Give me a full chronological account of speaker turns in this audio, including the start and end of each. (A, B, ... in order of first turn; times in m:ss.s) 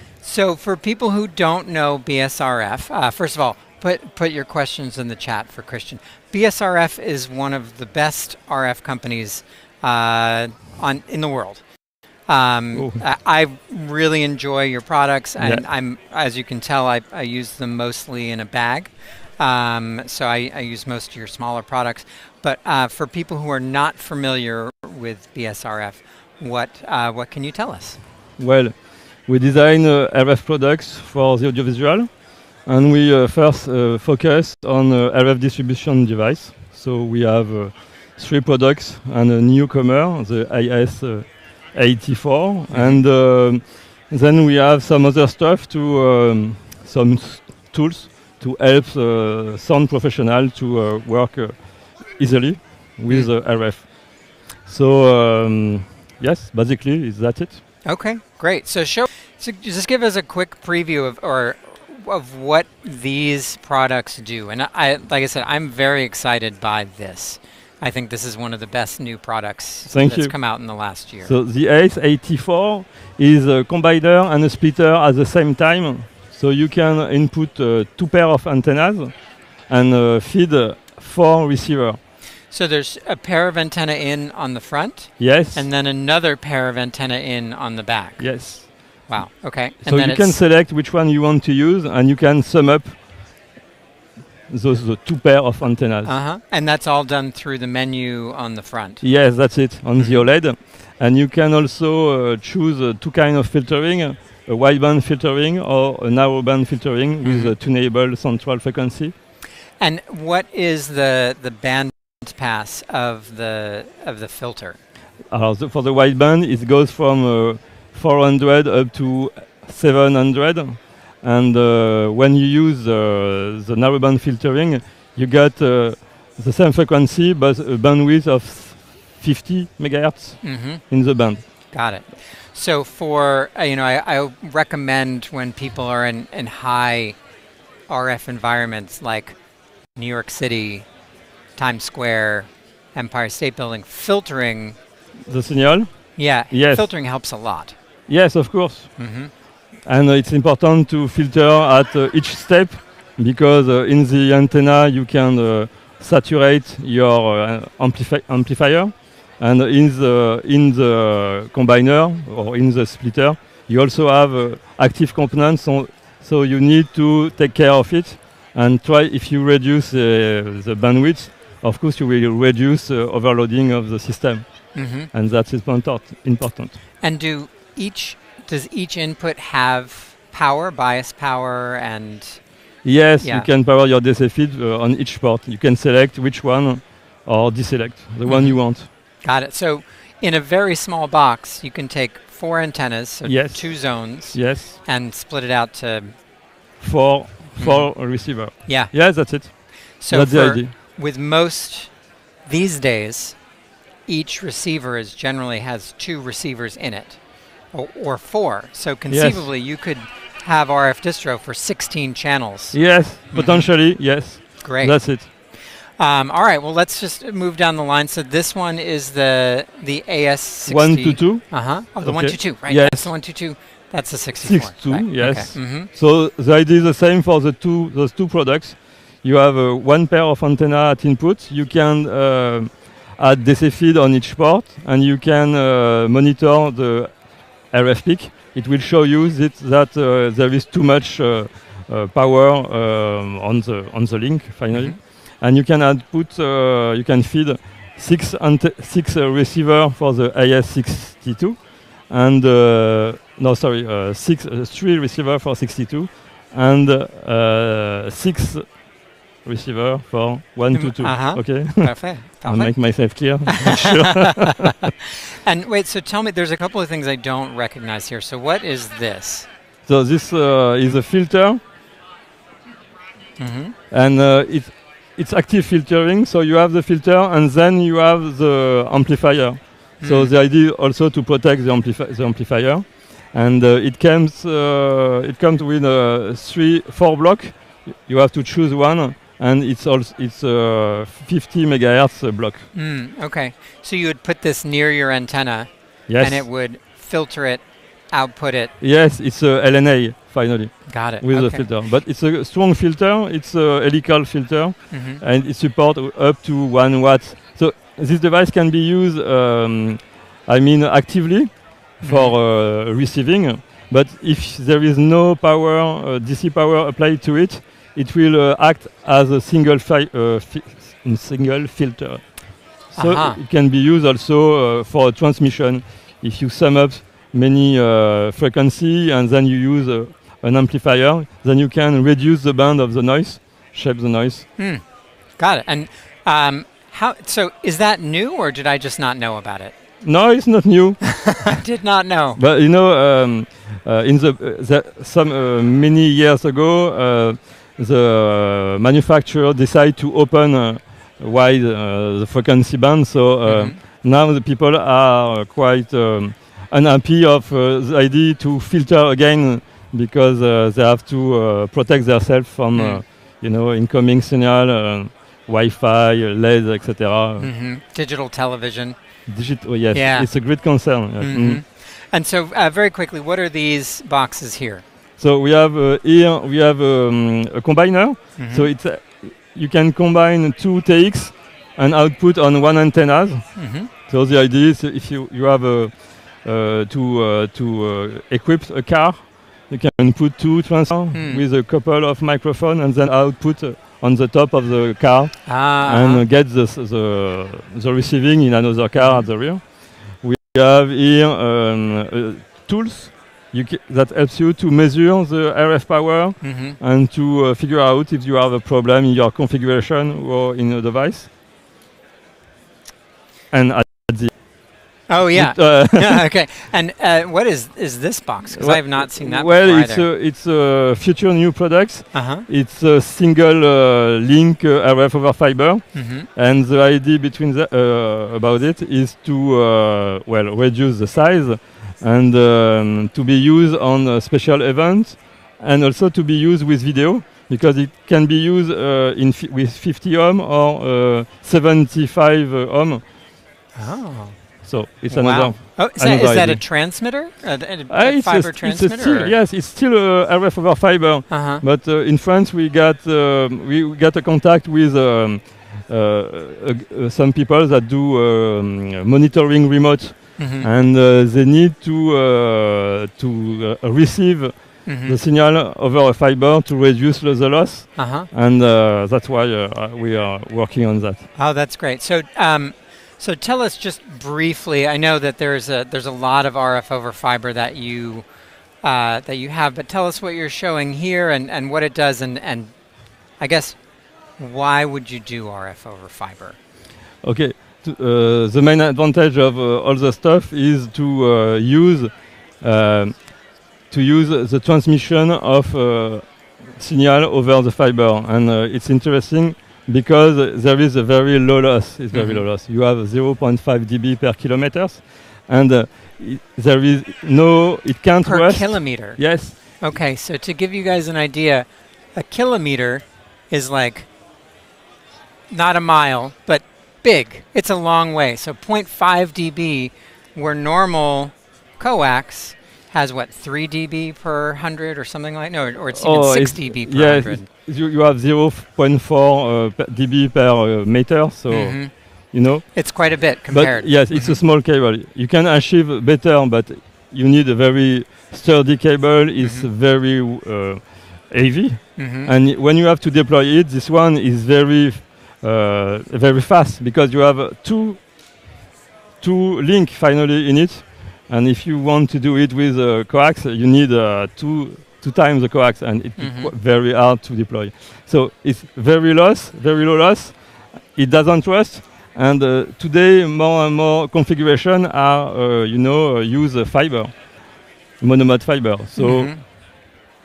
0:00.2-0:11.6 A
0:12.3-0:28.0 A
0:12.7-0:13.0 B
0:15.4-0:15.6 B
0:28.4-0:57.6 B
0:42.7-0:43.0 A
0:57.8-1:11.3 A
1:09.9-1:10.6 B
1:11.2-1:22.0 B
1:22.5-1:30.4 A
1:25.2-1:25.7 B
1:28.2-1:29.1 B
1:29.8-1:33.0 B
1:34.5-1:36.2 B
1:36.0-1:39.4 A
1:39.0-1:49.1 B
1:40.0-1:40.3 A
1:47.2-1:47.5 A
1:49.8-1:54.8 A
1:55.3-2:11.4 B
2:10.4-2:17.2 A
2:17.9-2:19.4 A
2:20.0-2:20.9 A
2:21.6-2:24.8 A
2:25.3-2:26.9 B
2:26.2-2:27.8 A
2:28.1-2:29.1 B
2:29.0-2:29.3 A
2:29.8-2:56.8 B
2:54.7-2:55.1 A
2:57.0-3:02.5 A
3:02.8-3:08.9 B
3:03.2-3:03.5 A
3:08.3-3:16.2 A
3:13.2-3:14.8 B
3:16.8-3:20.7 B
3:17.6-3:22.0 A
3:22.5-3:23.4 A
3:24.1-3:33.8 A
3:29.1-3:29.5 B
3:32.7-3:35.3 B
3:34.6-3:45.9 A
3:40.7-3:43.2 B
3:44.4-4:18.9 B
4:04.7-4:05.0 A
4:19.4-4:24.7 B
4:20.7-4:24.7 A
4:25.4-4:29.5 A
4:29.9-4:31.6 B
4:33.4-4:33.8 A
4:33.9-4:52.7 B
4:40.0-4:40.3 A
4:52.7-4:58.7 A
4:56.1-4:56.5 B
4:58.8-5:34.5 B
5:00.9-5:01.7 A
5:04.9-5:05.2 A
5:12.0-5:12.4 A
5:22.9-5:23.4 A
5:34.6-5:34.8 A
5:35.4-5:39.8 A
5:40.0-5:41.5 B
5:41.0-5:42.4 A
5:42.4-6:07.5 B
5:53.4-5:53.8 A
6:02.7-6:03.0 A
6:07.4-6:09.0 A
6:09.3-6:11.6 B
6:09.9-6:14.8 A
6:15.2-6:51.3 B
6:18.4-6:18.7 A
6:23.6-6:23.9 A
6:31.1-6:31.4 A
6:35.5-6:36.2 A
6:39.0-6:39.3 A
6:46.4-6:46.8 A
6:53.5-6:54.3 B
6:55.1-7:00.0 A
6:55.3-6:56.2 B
6:58.6-7:23.1 B
7:02.1-7:02.5 A
7:05.9-7:06.3 A
7:23.8-7:29.4 A
7:24.6-7:26.6 B
7:27.9-7:51.3 B
7:31.3-7:31.6 A
7:40.4-7:40.7 A
7:44.9-7:45.2 A
7:48.0-7:48.3 A
7:51.4-7:58.3 A
7:58.8-8:02.8 A
8:03.4-8:03.8 A
8:04.4-8:06.6 A
8:07.2-8:29.5 B
8:22.1-8:22.4 A
8:28.2-8:34.1 A
8:35.5-8:47.5 A
8:46.0-9:08.1 B
8:51.5-8:54.4 A
8:59.4-8:59.7 A
9:02.0-9:02.3 A
9:09.2-9:27.4 B
9:16.2-9:16.5 A
9:28.0-9:29.3 B
9:29.0-9:29.4 A